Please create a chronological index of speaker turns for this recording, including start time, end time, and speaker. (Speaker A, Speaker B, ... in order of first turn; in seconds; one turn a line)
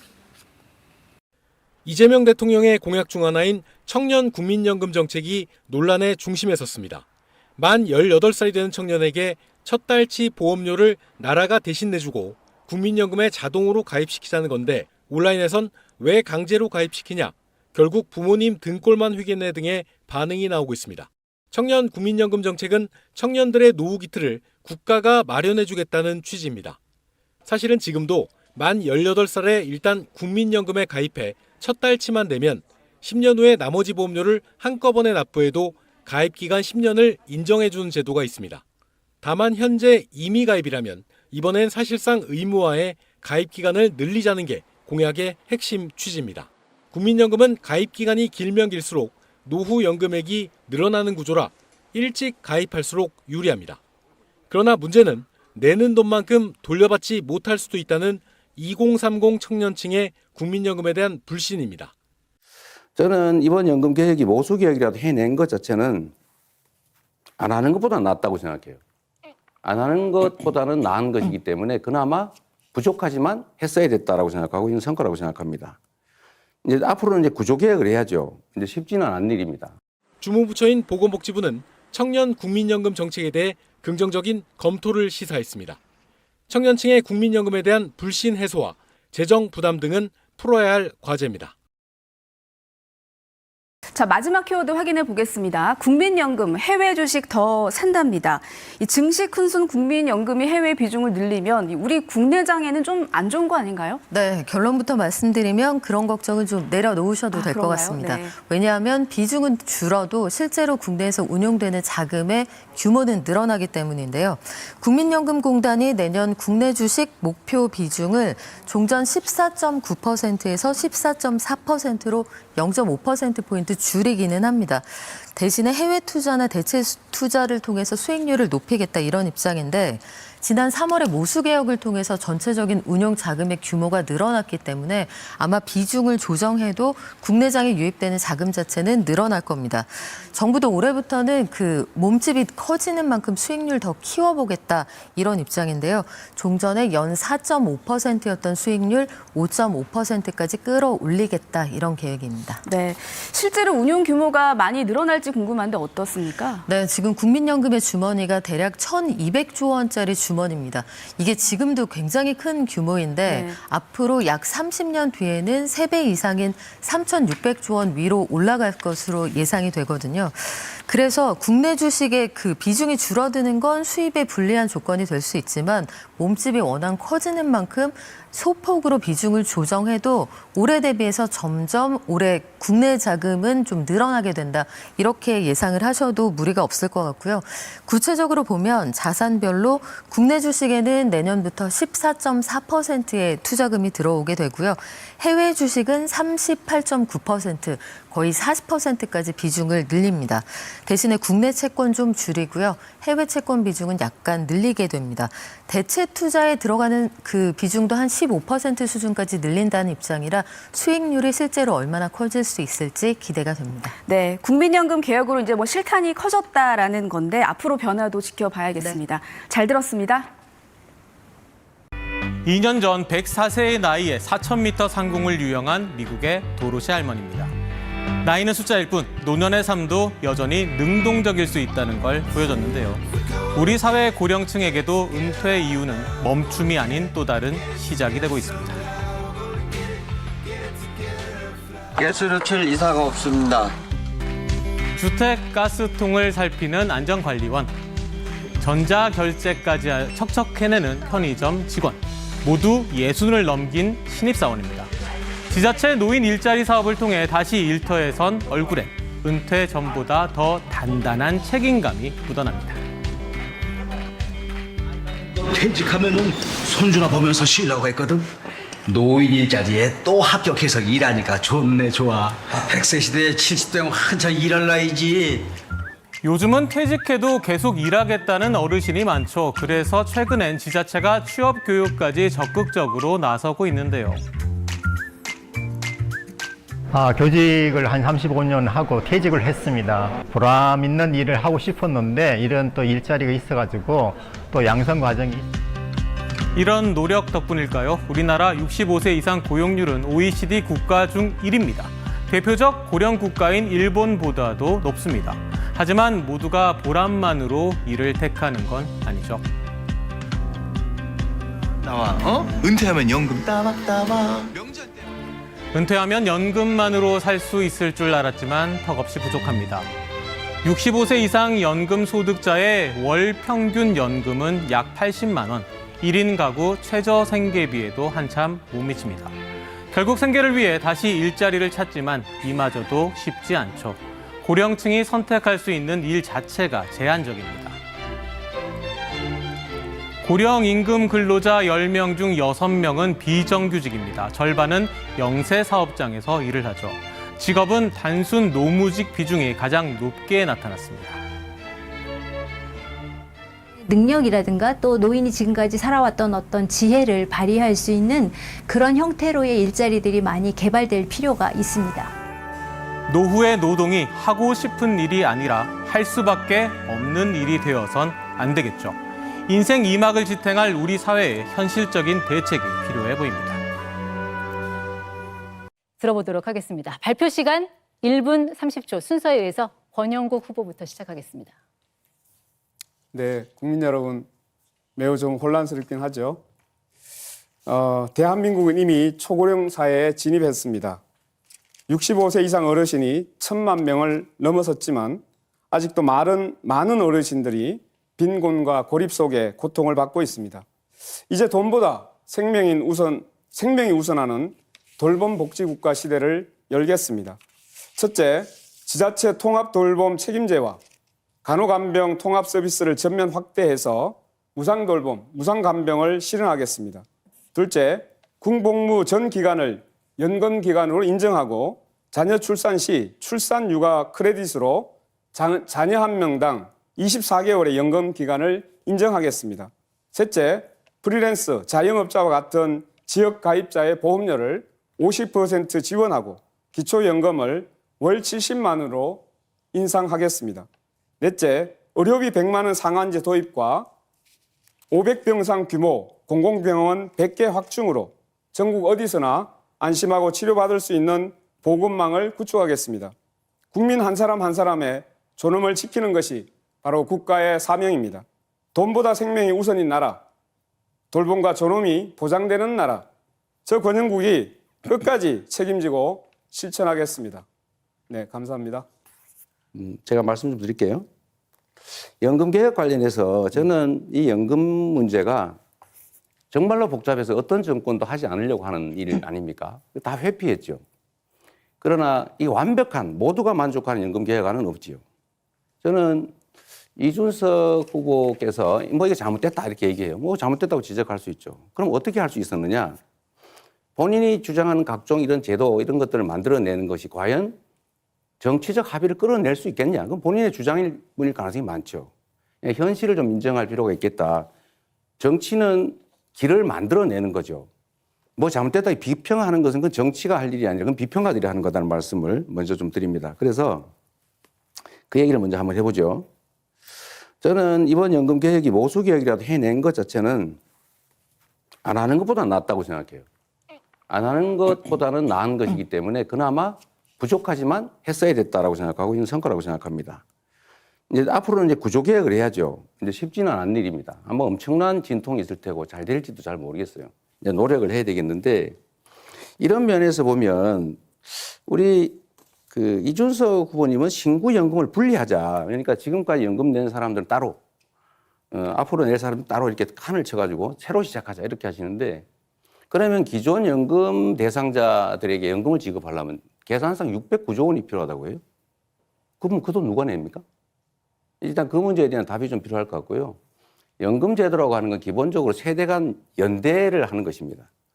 Speaker A: 1.9-7.0
Speaker A: 7.6-26.8
Speaker A: 27.4-38.6
Speaker A: 39.2-53.8
Speaker A: 54.5-61.9
Speaker B: 63.0-66.1
Speaker B: 67.4-68.8
Speaker B: 69.6-75.8
Speaker B: 76.7-79.8
Speaker A: 80.2-85.8
Speaker A: 86.5-91.5
Speaker C: 93.9-104.0
Speaker D: 104.1-152.6
Speaker C: 107.3-108.3
Speaker C: 152.7-156.6
Speaker D: 156.7-214.0
Speaker C: 163.3-163.6
Speaker C: 214.1-220.3
Speaker E: 222.4-227.5
Speaker E: 228.2-233.0
Speaker E: 233.5-238.8
Speaker F: 241.9-243.7
Speaker E: 245.0-247.7
Speaker E: 248.6-254.9
Speaker E: 255.5-262.8
Speaker F: 265.4-268.3
Speaker F: 268.9-275.5
Speaker E: 276.2-284.2
Speaker G: 286.9-295.4
Speaker E: 296.6-309.4
Speaker H: 311.8-314.5
Speaker E: 315.7-319.9
Speaker E: 320.6-329.3
Speaker E: 329.9-337.8
Speaker E: 340.2-351.2
Speaker I: 353.9-362.1
Speaker E: 363.1-373.6
Speaker J: 376.0-381.5
Speaker K: 383.1-384.3
Speaker K: 385.0-386.4
Speaker K: 387.7-391.0
Speaker K: 391.9-400.6
Speaker K: 401.3-407.4
Speaker K: 408.0-410.8
Speaker K: 411.4-440.7
Speaker K: 441.2-443.9
Speaker K: 444.9-453.1
Speaker K: 453.7-460.2
Speaker K: 461.1-463.1
Speaker K: 463.7-467.4
Speaker K: 468.1-468.9
Speaker B: 469.7-471.1
Speaker B: 472.2-475.6
Speaker B: 476.5-480.8
Speaker B: 481.8-485.0
Speaker B: 485.8-486.3
Speaker B: 487.0-493.0
Speaker B: 494.0-497.6
Speaker B: 498.4-502.1
Speaker B: 502.6-504.5
Speaker B: 505.2-507.7
Speaker B: 508.4-513.9
Speaker B: 515.1-516.3
Speaker B: 517.4-520.6
Speaker B: 521.9-523.3
Speaker B: 524.1-530.2
Speaker B: 531.1-538.8
Speaker B: 539.6-542.2
Speaker B: 542.7-547.6
Speaker B: 548.5-552.3
Speaker B: 552.9-558.4
Speaker B: 559.4-560.4
Speaker B: 561.4-563.4
Speaker B: 564.0-567.7